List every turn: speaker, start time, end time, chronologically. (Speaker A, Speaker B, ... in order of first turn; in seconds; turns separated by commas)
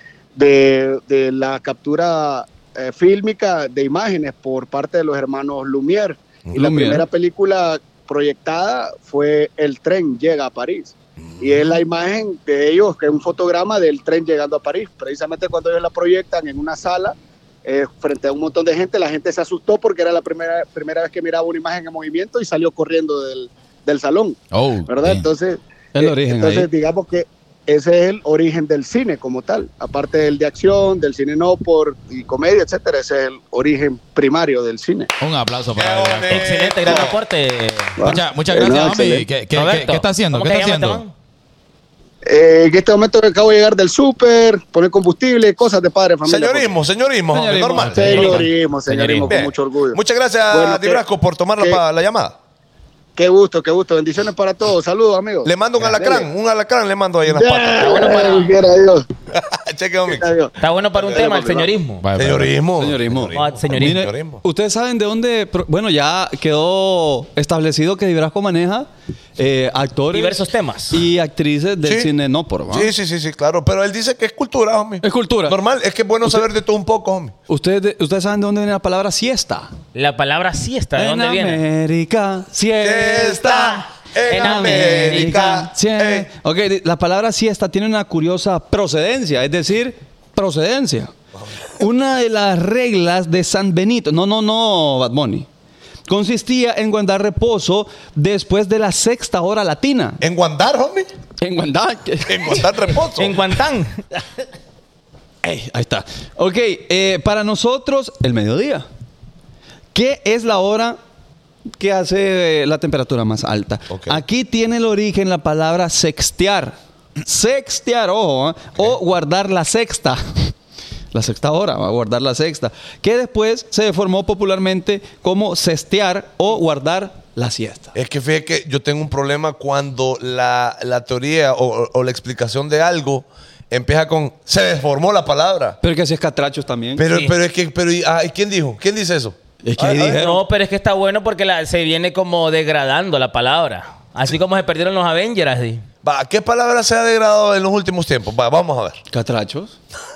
Speaker A: 0.3-35.1, Speaker B: 6.5-7.0, Speaker C: 24.5-25.2, Speaker B: 25.9-26.7, Speaker C: 35.2-36.6, Speaker D: 35.8-37.2, Speaker E: 36.3-38.0, Speaker A: 38.0-39.3, Speaker C: 38.0-41.0, Speaker E: 39.5-41.1, Speaker A: 42.2-46.8, Speaker D: 46.2-48.1, Speaker B: 47.3-48.4, Speaker C: 47.8-49.3, Speaker A: 47.8-51.0, Speaker E: 49.0-49.3, Speaker D: 49.3-52.3, Speaker A: 51.6-51.8, Speaker A: 53.1-56.3, Speaker D: 55.4-58.0, Speaker A: 57.2-59.1, Speaker E: 57.8-58.5, Speaker D: 59.5-60.3, Speaker A: 60.1-61.7, Speaker E: 60.6-62.0, Speaker C: 62.0-62.6, Speaker D: 62.1-64.4, Speaker B: 62.8-72.9, Speaker E: 63.3-64.1, Speaker E: 70.1-71.0, Speaker D: 71.8-72.1, Speaker D: 72.7-77.3, Speaker B: 75.0-75.6, Speaker B: 77.5-79.7, Speaker E: 79.9-81.6, Speaker B: 81.0-91.1, Speaker D: 82.8-86.3, Speaker E: 83.4-85.6, Speaker B: 91.8-95.5, Speaker B: 96.1-100.2, Speaker D: 100.2-101.1, Speaker B: 101.4-103.0, Speaker D: 102.3-103.3, Speaker E: 103.2-104.0, Speaker B: 105.4-108.8, Speaker B: 109.9-111.0, Speaker B: 111.8-120.5, Speaker D: 113.9-114.2, Speaker B: 121.1-127.9, Speaker D: 127.9-135.8, Speaker B: 135.8-137.1, Speaker D: 136.9-140.2, Speaker E: 137.1-137.4, Speaker B: 139.6-140.4, Speaker E: 140.0-145.8, Speaker D: 146.0-149.0, Speaker B: 149.1-149.7